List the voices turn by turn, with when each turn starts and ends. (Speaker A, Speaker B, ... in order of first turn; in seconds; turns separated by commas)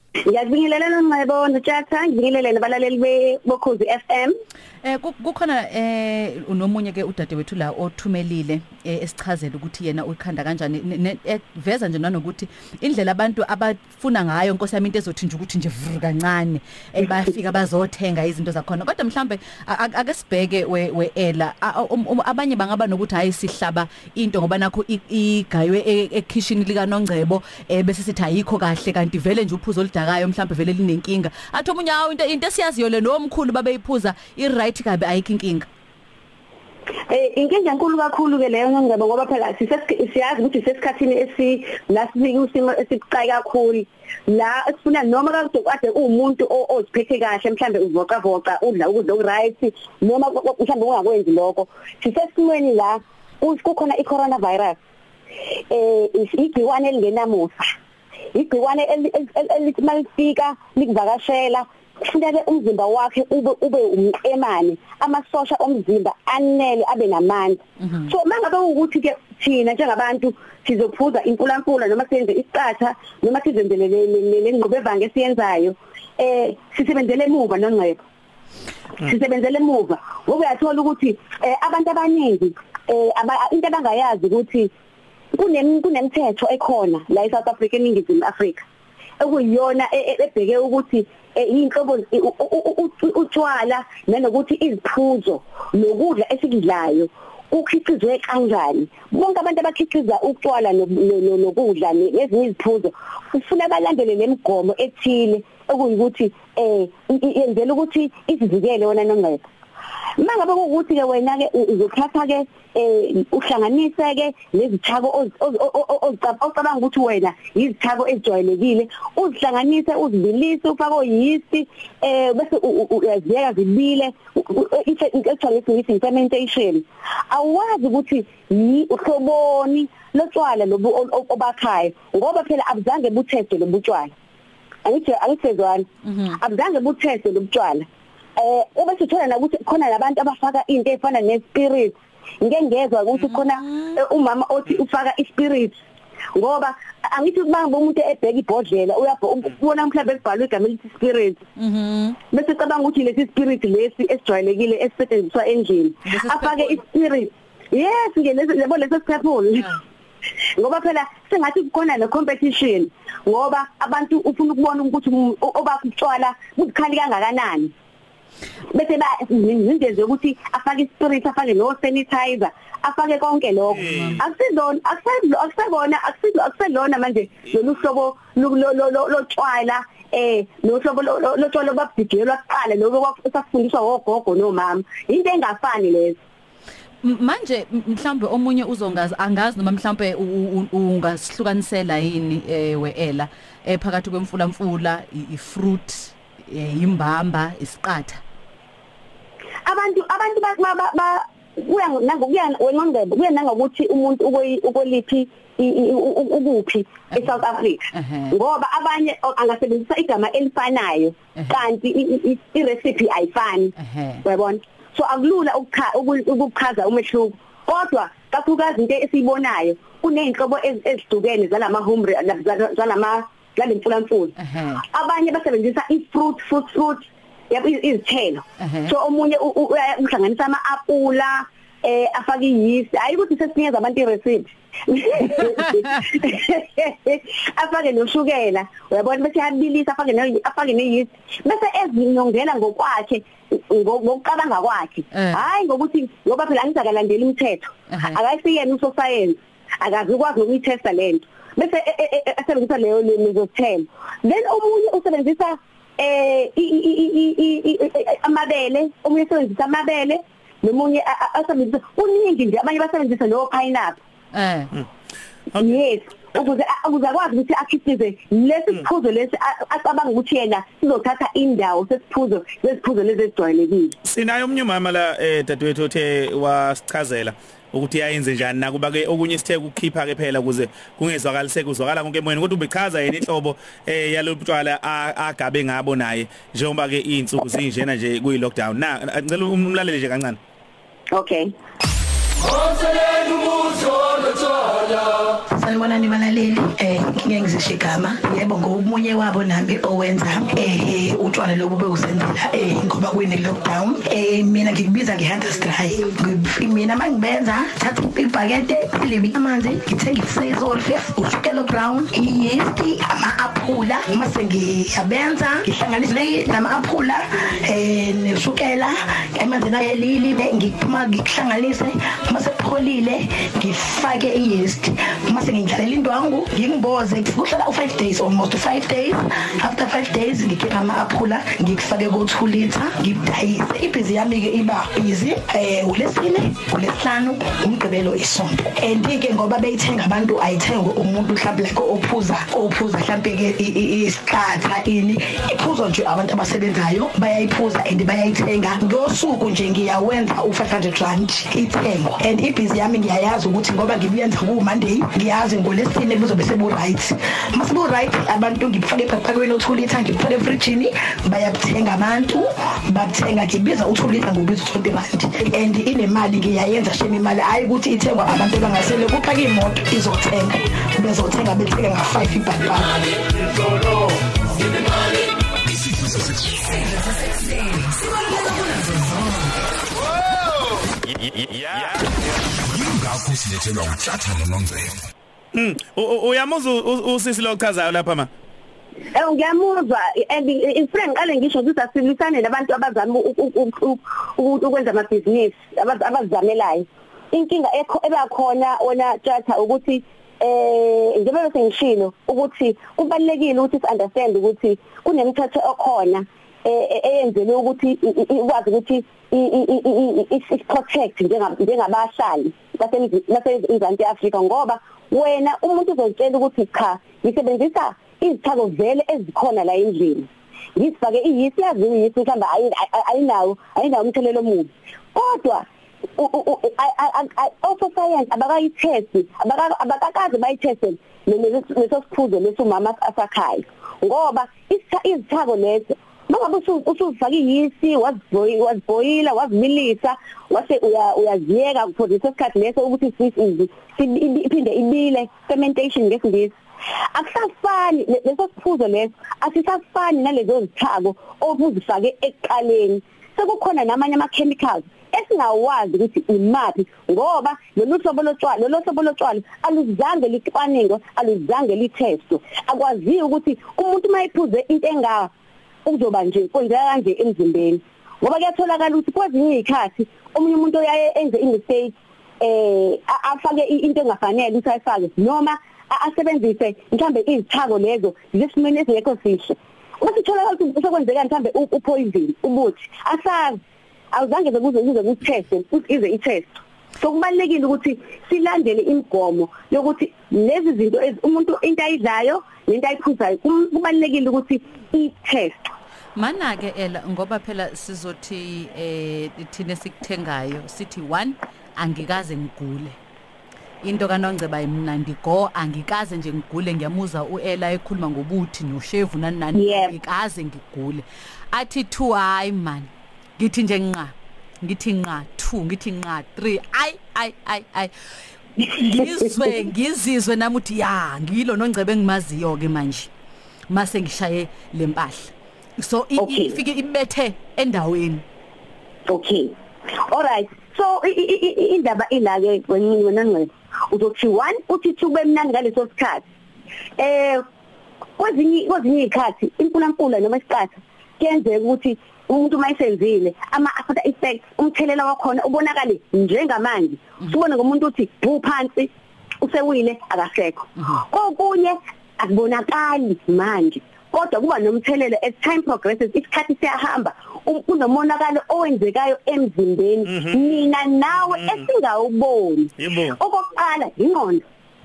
Speaker A: 0.3-4.3, Speaker B: 4.8-35.7, Speaker A: 37.1-54.8, Speaker A: 55.7-57.7, Speaker A: 58.3-78.0, Speaker B: 67.8-68.1, Speaker A: 79.0-84.7, Speaker A: 85.3-88.6, Speaker A: 89.2-109.4, Speaker A: 110.2-134.1, Speaker A: 134.8-137.8, Speaker B: 136.0-136.4, Speaker A: 138.4-145.7, Speaker B: 143.3-144.0, Speaker A: 146.3-151.4, Speaker B: 151.6-152.2, Speaker A: 152.3-159.7, Speaker B: 156.1-156.8, Speaker A: 160.6-167.7, Speaker A: 168.7-186.2, Speaker B: 173.7-174.2, Speaker C: 173.7-174.2, Speaker B: 187.0-198.2, Speaker A: 199.7-213.7, Speaker B: 207.9-208.3, Speaker B: 213.8-214.2, Speaker A: 214.2-264.0, Speaker B: 224.4-224.8, Speaker B: 228.6-228.9, Speaker B: 245.1-245.4, Speaker B: 247.9-248.2, Speaker B: 264.3-264.7, Speaker A: 265.6-273.9, Speaker C: 274.0-290.4, Speaker A: 291.1-291.5, Speaker D: 295.5-373.1, Speaker C: 381.8-382.1, Speaker E: 382.8-384.9, Speaker C: 385.5-388.3, Speaker A: 389.1-425.6, Speaker A: 426.2-446.5, Speaker A: 447.1-465.3, Speaker A: 465.9-483.6, Speaker A: 484.1-495.7, Speaker B: 496.1-503.0, Speaker B: 503.8-517.9, Speaker A: 509.5-509.9, Speaker B: 518.6-523.1, Speaker B: 523.7-528.2, Speaker A: 526.2-526.6, Speaker A: 529.1-529.5, Speaker A: 530.1-536.2, Speaker A: 537.0-537.4, Speaker A: 538.2-548.9, Speaker A: 549.4-564.4, Speaker C: 560.0-560.6, Speaker C: 561.2-561.6, Speaker C: 562.8-563.2